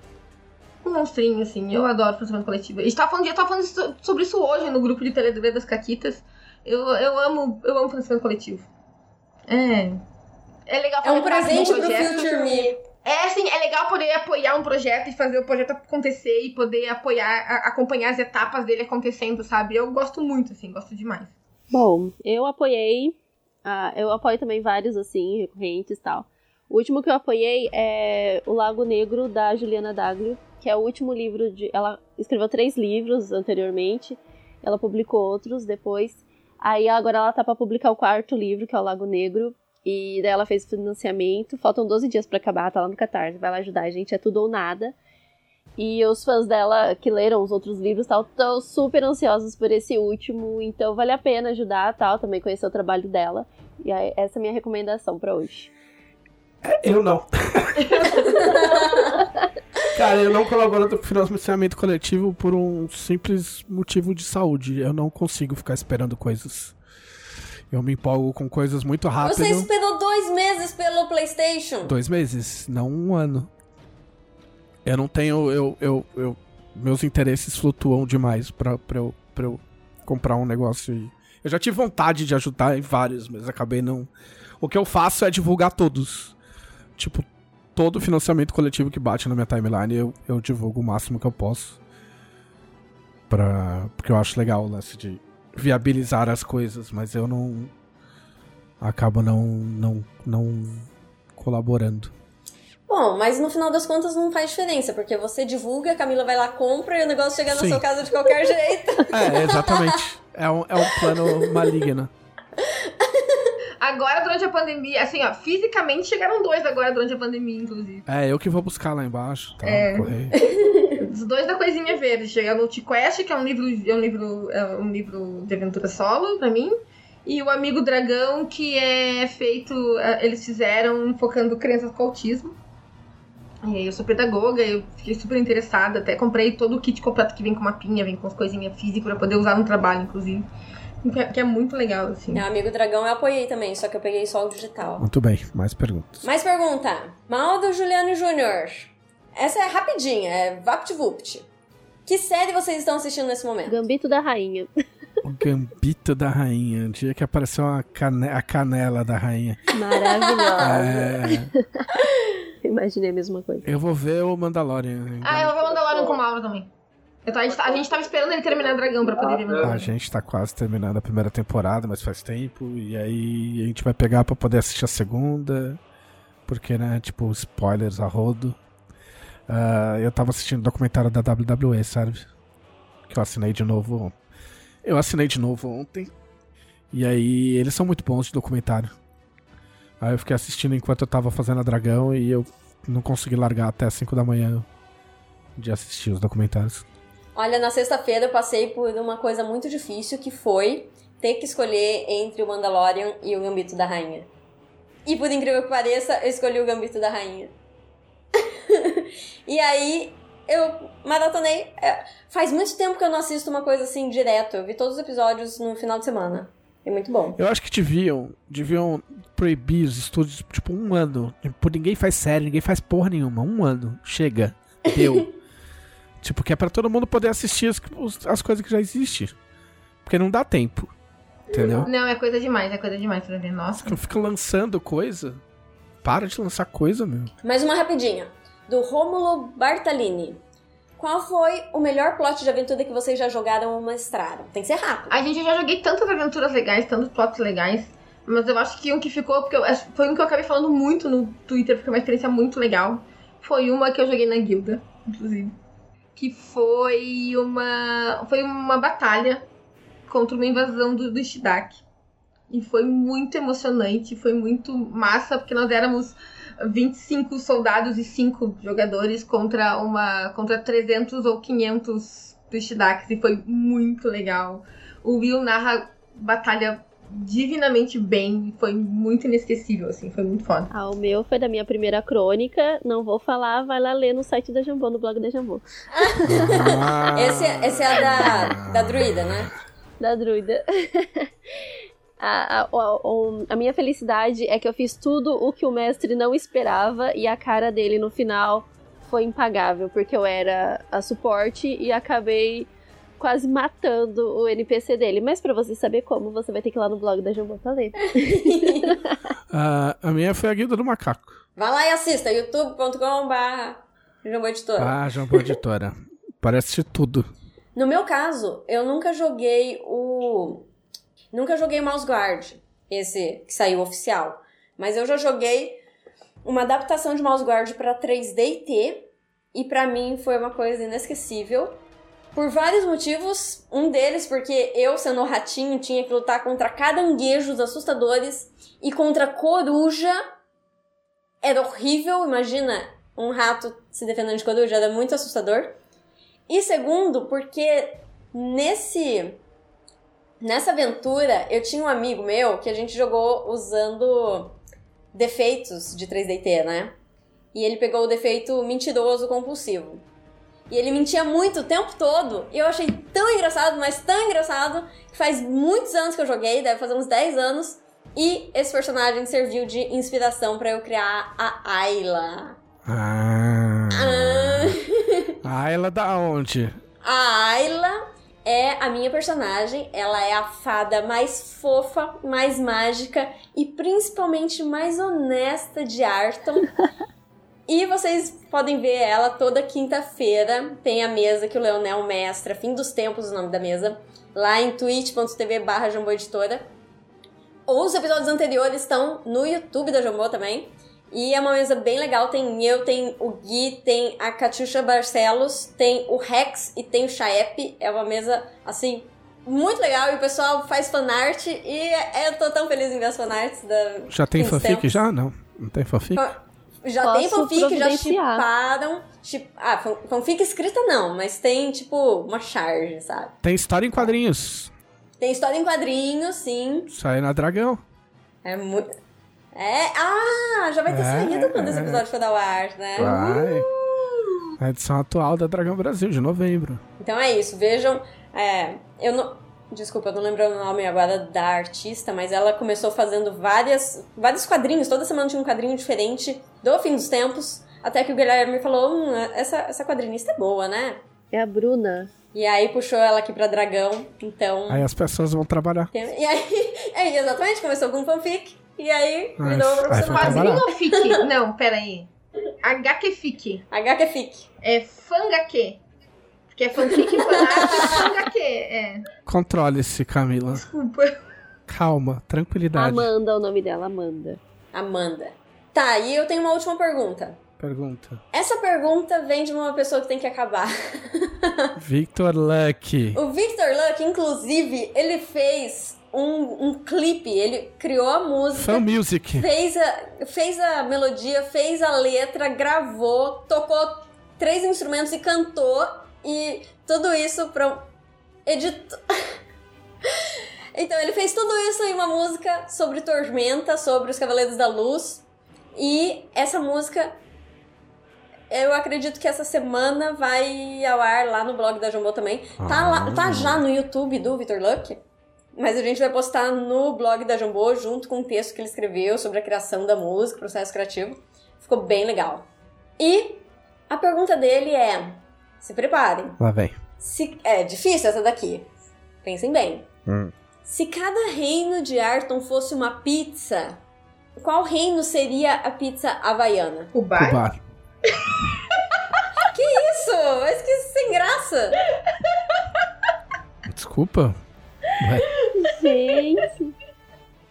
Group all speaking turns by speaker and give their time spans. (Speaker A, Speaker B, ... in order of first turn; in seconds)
Speaker A: 0.8-8.7, 9.5-10.0, 10.7-21.3, 113.8-118.0, 119.6-126.7, 127.2-132.6, 133.6-140.4, 141.0-142.4, 165.2-166.7, 167.2-169.9, 231.5-233.9, 245.1-255.5, 256.1-259.4, 260.1-261.8, 262.5-280.7, 433.0-434.5, 459.8-462.1, 462.6-463.6, 464.6-465.8, 466.5-469.0, 470.5-471.2, 536.9-537.5, 538.1-538.5
Speaker B: 11.0-12.7, 58.4-59.2, 69.2-71.9, 102.9-110.0, 111.0-111.5, 112.6-113.5, 120.3-120.9, 142.3-145.1, 146.2-151.5, 152.1-153.8, 160.2-160.7, 197.3-204.3, 205.1-207.5, 208.3-217.4, 237.4-240.4, 241.0-245.2, 286.0-289.5, 308.0-309.0, 311.6-315.4, 317.7-320.6, 321.3-325.8, 326.4-331.8, 332.3-340.2, 341.4-345.8, 346.5-349.4, 350.4-354.6, 355.1-356.9, 357.5-360.0, 360.7-372.6, 373.9-375.4, 377.0-386.7, 387.7-396.7, 397.7-415.0, 416.1-423.3, 425.2-426.9, 428.4-428.9, 429.5-433.2, 437.0-451.0, 452.3-454.9, 455.9-461.2, 463.7-464.5, 467.2-467.9, 474.7-477.4, 478.3-481.7, 483.1-497.8, 498.4-499.3, 500.7-505.2, 505.7-507.1, 508.5-515.0, 515.6-522.5, 523.0-526.4, 527.0-528.7, 529.2-529.9, 530.6-533.8, 534.4-536.9, 539.4-541.8
Speaker C: 21.7-44.9, 45.8-55.7, 153.7-154.7, 159.7-162.1, 162.6-163.7, 280.7-285.6, 286.4-286.9, 290.0-291.3, 292.2-309.1, 417.0-418.4, 451.3-452.1, 472.7-474.4, 545.6-546.7
Speaker D: 56.6-58.7, 59.9-66.8, 67.7-69.7, 71.8-73.5, 74.8-86.3, 87.0-91.8, 93.3-97.7, 98.8-102.1, 107.5-107.8, 109.1-112.1, 118.1-120.3, 145.0-146.2, 155.2-159.6, 160.6-161.5, 163.6-165.6, 169.6-175.8, 176.5-178.6, 179.5-182.3, 183.1-184.1, 184.8-186.1, 186.9-188.9, 190.0-194.7, 195.6-196.8, 217.3-225.3, 226.2-229.3, 230.0-230.9, 231.5-231.9, 233.8-235.4, 236.0-237.3, 286.3-289.2, 309.5-311.3, 314.8-317.2, 372.8-374.7, 375.4-376.8, 414.1-416.2, 423.4-424.7, 426.9-427.8, 430.9-432.0, 433.0-433.7, 434.6-436.8, 454.7-455.9, 459.4-460.6, 469.2-470.6, 471.7-473.1, 477.6-478.2, 481.8-483.2, 488.5-489.5, 512.6-513.6, 526.4-526.8, 530.0-530.3, 537.1-537.6, 543.7-544.4, 545.0-545.3